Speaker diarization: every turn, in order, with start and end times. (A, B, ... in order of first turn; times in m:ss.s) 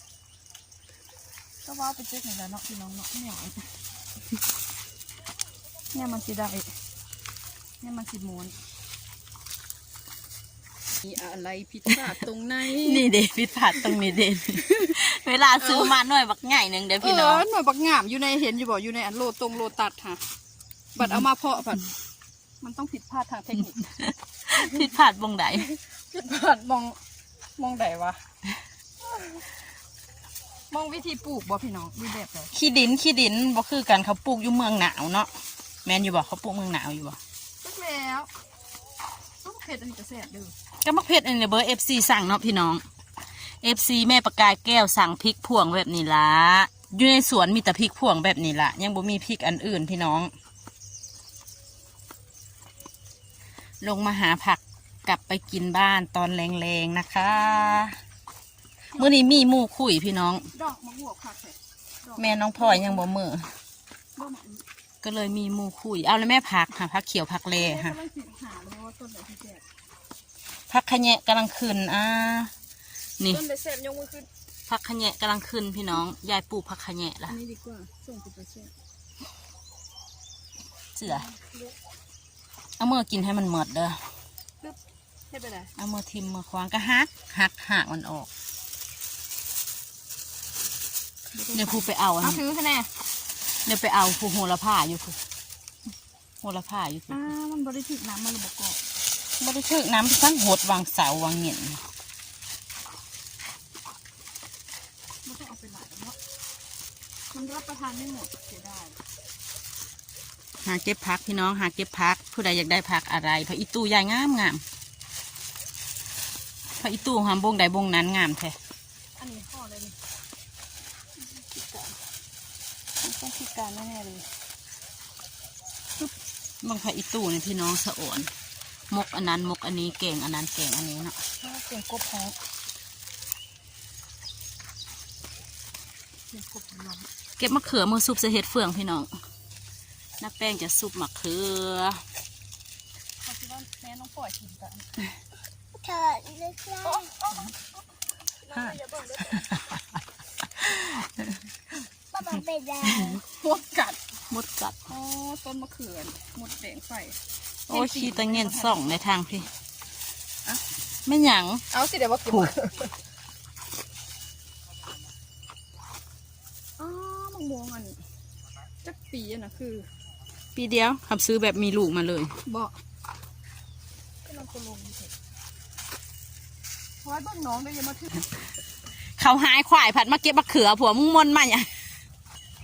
0:01.6-0:03.6 A
0:05.9-0:06.7 A
0:07.8-0:08.5 A
0:11.0-0:13.0 A
0:12.7-0:17.4 B
0:14.7-0:14.9 A
0:15.6-0:16.0 A
0:17.0-0:20.2 A
0:20.9-0:21.9 A
0:22.6-0:23.8 A
0:24.1-0:25.7 B
0:25.6-0:27.0 A
0:27.6-0:28.2 A
0:30.7-0:32.5 A
0:32.5-0:35.3 B
0:35.8-0:37.2 B
0:37.6-0:38.3 A
0:39.4-0:40.5 A
0:40.8-0:42.8 B
0:43.6-0:50.3 B
0:53.8-0:58.0 B
0:58.9-1:00.5 B
1:00.5-1:03.1 A
1:02.2-1:03.5 B
1:04.2-1:04.6 A
1:05.0-1:08.0 B
1:07.6-1:09.6 A
1:10.7-1:12.5 B
1:13.2-1:14.3 A
1:14.7-1:17.4 B
1:17.3-1:18.7 A
1:20.9-1:21.3 B
1:21.0-1:21.7 A
1:22.8-1:24.0 B
1:25.3-1:25.7 A
1:25.8-1:28.3 B
1:31.3-1:32.9 A
1:31.5-1:32.4 B
1:33.6-1:35.2 B
1:36.4-1:37.3 B
1:37.1-1:38.8 A
1:39.4-1:41.8 B
1:45.2-1:46.2 A
1:47.3-1:49.0 A
1:50.6-1:54.6 B
1:56.8-1:58.6 B
1:59.2-2:00.0 A
2:01.3-2:01.9 A
2:03.0-2:04.2 A
2:06.6-2:08.3 B
2:08.9-2:11.2 B
2:11.4-2:12.4 A
2:16.3-2:17.1 A
2:17.4-2:19.1 B
2:20.2-2:22.0 B
2:23.2-2:24.9 A
2:25.7-2:27.1 C
2:26.8-2:27.5 A
2:28.4-2:29.5 A
2:29.3-2:29.6 B
2:30.6-2:31.1 B
2:32.1-2:33.2 C
2:32.9-2:33.2 B
2:33.2-2:34.0 A
2:34.3-2:34.8 B
2:34.9-2:38.9 A
2:37.7-2:39.5 B
2:41.0-2:41.6 B
2:41.7-2:42.9 A
2:46.8-2:48.0 A
2:48.8-2:49.8 A
2:50.5-2:52.3 B
2:52.4-2:52.7 A
2:54.2-2:55.1 A
2:57.0-2:58.1 A
2:59.2-3:01.7 B